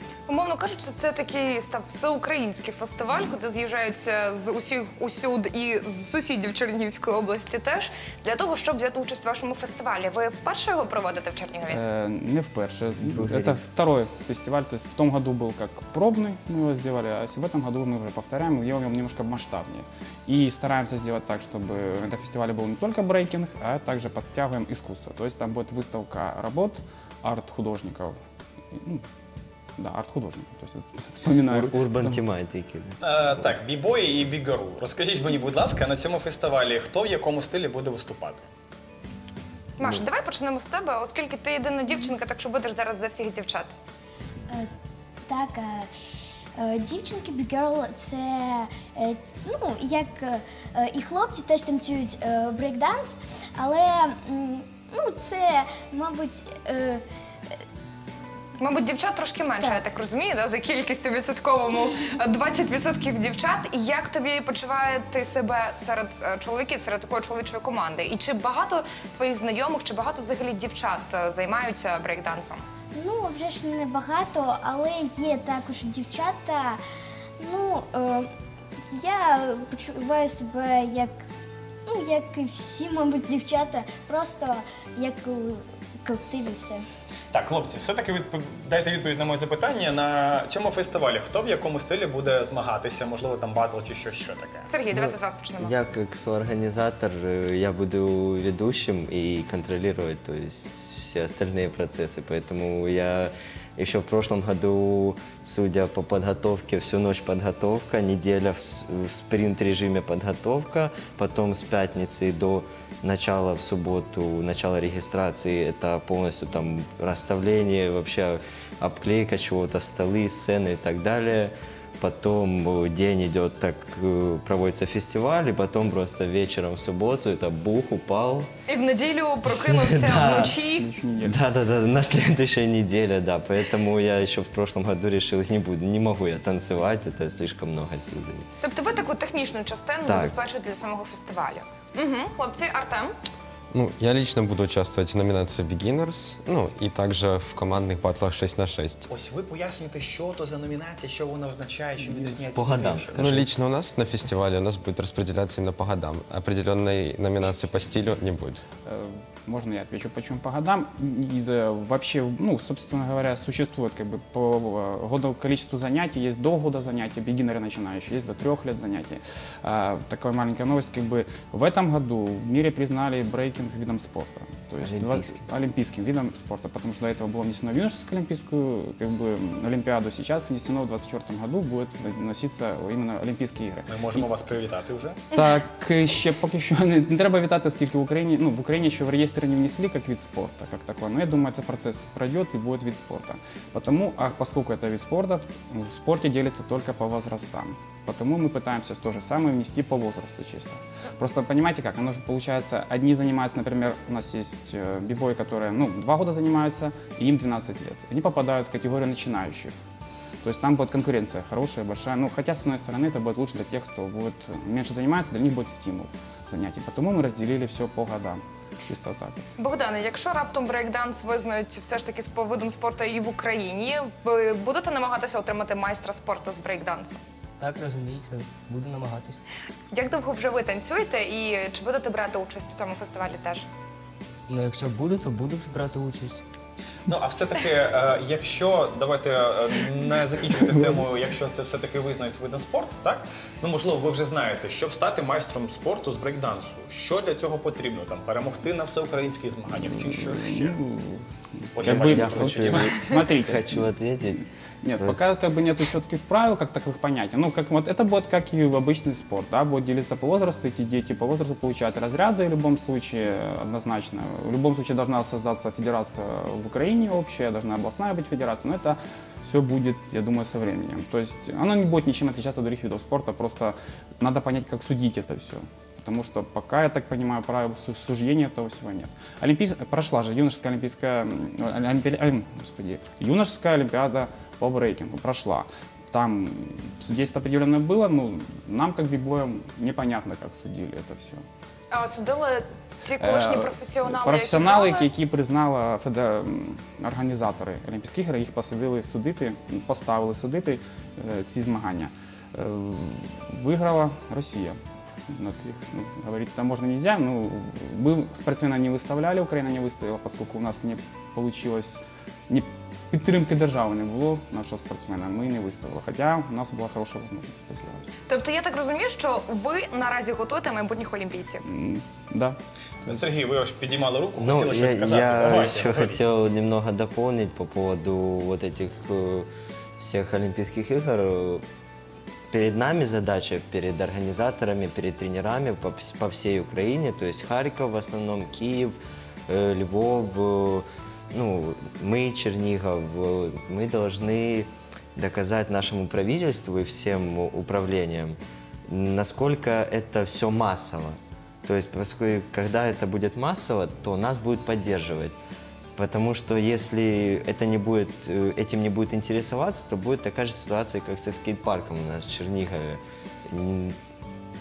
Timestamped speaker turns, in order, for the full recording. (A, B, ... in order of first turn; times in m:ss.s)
0:00.3-0:11.8 A
0:11.7-0:28.2 B
0:13.0-0:13.6 C
0:28.7-0:29.0 B
0:29.8-0:32.2 B
0:31.4-0:33.5 C
0:33.0-0:38.4 D
0:39.8-0:43.8 A
0:45.3-0:45.9 E
0:46.6-0:57.6 E
0:58.6-1:12.6 A
1:12.9-1:16.8 E
1:17.4-1:18.3 E
1:18.9-1:21.1 E
1:21.9-1:26.8 E
1:27.3-1:34.7 D
1:34.7-1:35.7 A
1:34.9-2:08.5 C
2:08.7-2:10.9 A
2:09.4-2:10.6 C
2:10.2-2:11.5 B
2:11.2-2:18.5 C
2:18.6-2:23.1 A
2:20.0-2:20.3 C
2:23.7-2:29.0 F
2:29.1-2:33.5 D
2:32.5-2:33.5 C
2:33.2-2:38.6 F
2:38.8-3:04.2 B
2:54.8-2:55.4 C
3:03.9-3:05.2 D
3:05.3-3:29.8 B
3:30.4-3:39.5 B
3:39.6-3:47.2 A
3:47.6-3:49.4 G
3:49.9-3:53.7 A
3:54.5-3:56.4 G
3:57.1-4:10.8 D
4:00.8-4:01.0 B
4:09.9-4:51.4 B
4:11.7-4:12.9 D
4:11.8-4:14.4 C
4:51.9-4:55.1 A
4:53.2-5:18.1 B
5:18.3-5:21.6 A
5:21.6-5:22.6 B
5:23.0-5:26.2 D
5:24.4-5:31.6 C
5:32.5-5:48.4 C
5:48.9-5:55.4 C
5:56.0-6:04.0 C